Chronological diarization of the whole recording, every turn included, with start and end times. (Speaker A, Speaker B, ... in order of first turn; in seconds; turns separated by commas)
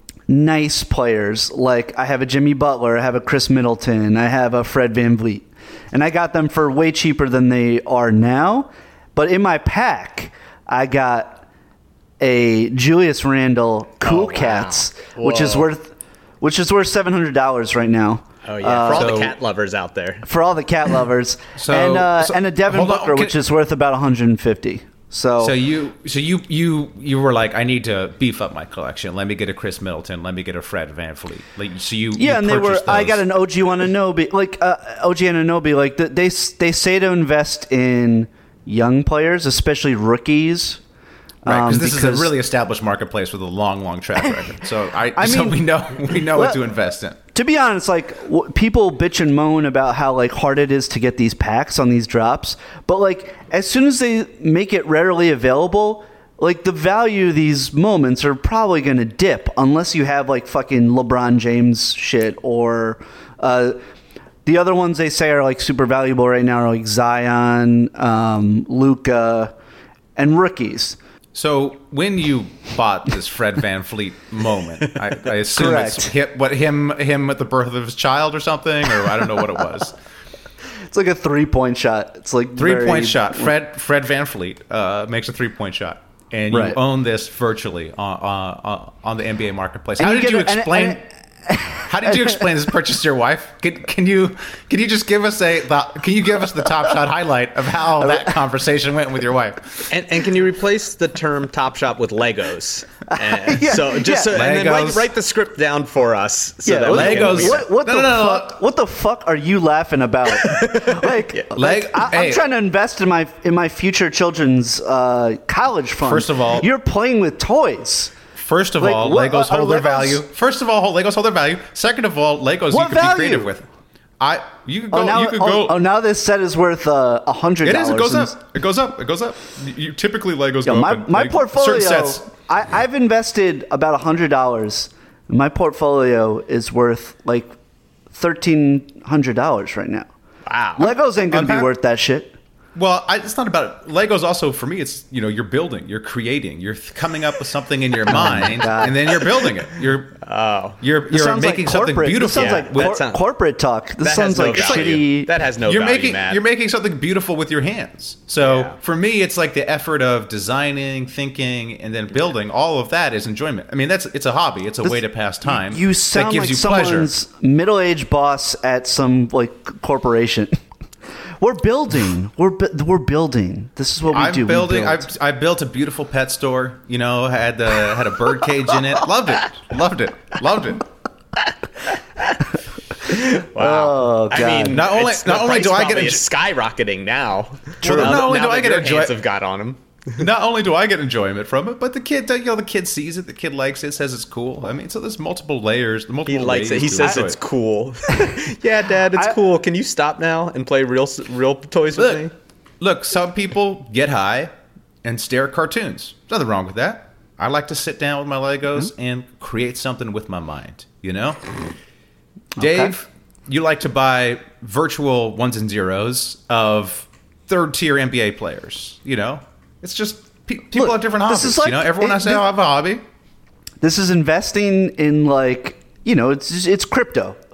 Speaker A: 0.3-11.4, Speaker A: 12.2-19.1, Speaker B: 14.0-15.7, Speaker B: 18.4-20.2, Speaker C: 18.9-19.4, Speaker A: 20.2-25.6, Speaker C: 21.6-23.4, Speaker C: 25.4-33.3, Speaker A: 32.2-40.8, Speaker A: 41.5-42.3, Speaker C: 41.5-47.2, Speaker A: 45.2-46.6, Speaker A: 47.3-63.8, Speaker A: 64.5-69.5, Speaker A: 70.2-71.0, Speaker C: 71.3-80.0, Speaker A: 75.5-76.1, Speaker A: 80.9-83.5, Speaker C: 82.6-91.0, Speaker A: 86.5-86.8, Speaker A: 90.0-92.5, Speaker C: 91.9-99.9, Speaker A: 98.0-98.4, Speaker B: 99.9-107.7, Speaker A: 103.1-104.3, Speaker C: 104.3-105.1, Speaker A: 106.7-118.1, Speaker C: 106.9-108.6, Speaker B: 110.3-111.5, Speaker C: 111.5-112.5, Speaker C: 116.0-116.7, Speaker C: 118.4-123.7, Speaker A: 118.8-120.2, Speaker A: 122.7-123.5, Speaker C: 124.2-125.8, Speaker A: 124.9-128.4, Speaker C: 127.6-132.2, Speaker A: 130.7-137.5, Speaker A: 138.1-140.1, Speaker B: 140.5-140.9, Speaker A: 140.8-142.3, Speaker C: 141.3-141.7, Speaker C: 142.8-150.2, Speaker A: 148.1-149.0, Speaker B: 150.2-150.8, Speaker C: 150.8-153.0, Speaker A: 151.1-155.3, Speaker B: 152.3-153.2, Speaker B: 154.0-156.4, Speaker C: 154.4-155.0, Speaker C: 155.6-167.1, Speaker B: 158.4-158.8, Speaker A: 164.8-170.6, Speaker A: 171.4-175.1, Speaker C: 174.1-180.9, Speaker B: 183.1-189.8, Speaker A: 183.1-184.8, Speaker C: 184.5-186.2, Speaker C: 187.8-189.2, Speaker A: 187.8-188.2, Speaker C: 190.2-197.4, Speaker B: 196.3-202.3, Speaker C: 201.9-202.3, Speaker C: 202.8-204.5, Speaker C: 205.0-211.5, Speaker A: 212.6-212.9, Speaker C: 212.6-223.0, Speaker A: 220.8-222.4, Speaker A: 223.8-227.4